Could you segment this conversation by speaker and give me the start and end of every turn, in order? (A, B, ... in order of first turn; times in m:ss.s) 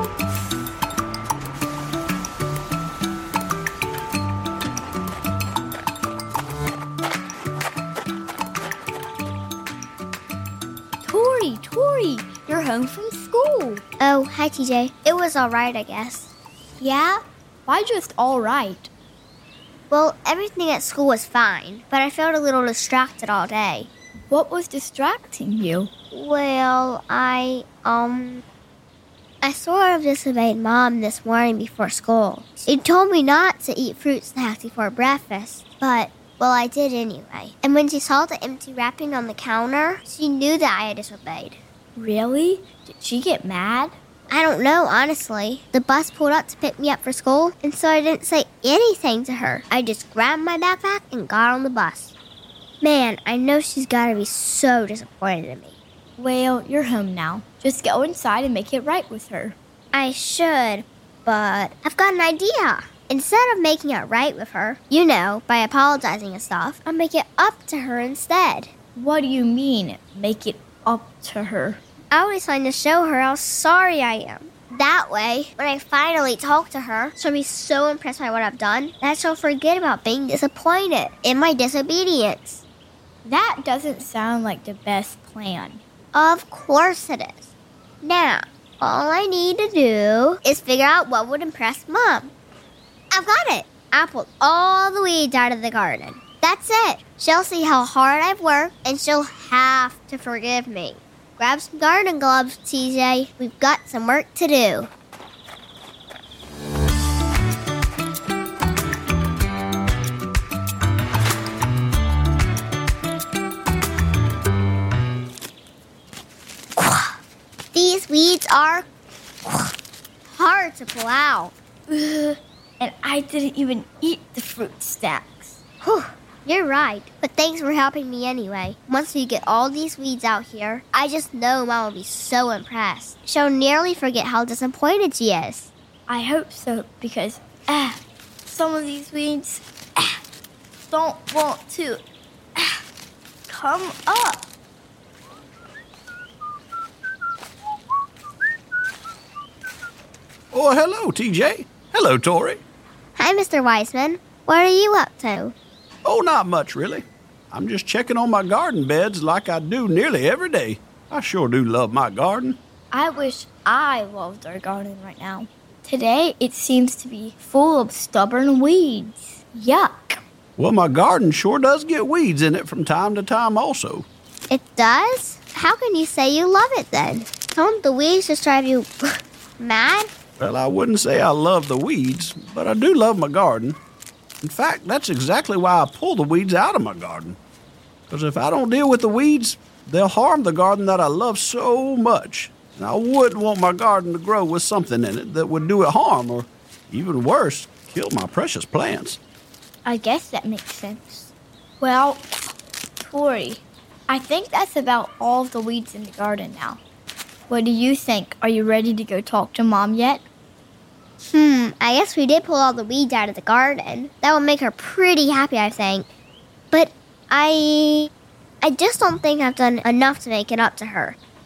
0:11.0-0:13.8 A
0:14.0-0:16.3 B
0:16.8-0:18.9 A
0:19.9-0:23.9 B
0:24.3-0:25.9 A
0:26.1-0:28.4 B
0:29.4-0:41.6 B
0:42.0-0:44.0 A
0:44.3-0:52.1 B
0:52.8-0:55.7 B
0:56.2-0:59.6 A
0:59.9-1:08.7 B
1:08.9-1:11.8 A
1:12.1-1:22.6 B
1:23.2-1:25.8 A
1:26.1-1:27.5 B
1:28.0-1:32.3 B
1:33.1-1:44.9 B
1:56.8-1:57.2 B
1:57.7-1:58.8 B
1:59.4-1:59.7 B
2:00.3-2:01.5 B
2:01.9-2:05.6 A
2:05.8-2:15.7 B
2:16.1-2:20.2 A
2:20.9-2:22.0 A
2:22.6-2:22.8 A
2:23.5-2:24.5 A
2:30.5-2:32.6 C
2:33.2-2:35.5 B
2:36.0-2:42.6 C
2:42.9-2:50.2 A
2:50.6-2:54.1 C
2:54.5-3:00.1 B
3:00.4-3:03.8 C
3:04.4-3:07.4 C
3:08.1-3:19.2 C
3:19.8-3:22.3 A
3:23.0-3:26.8 A
3:27.5-3:30.2 A
3:31.2-3:36.0 B
3:36.7-3:38.1 B
3:38.6-3:41.2 B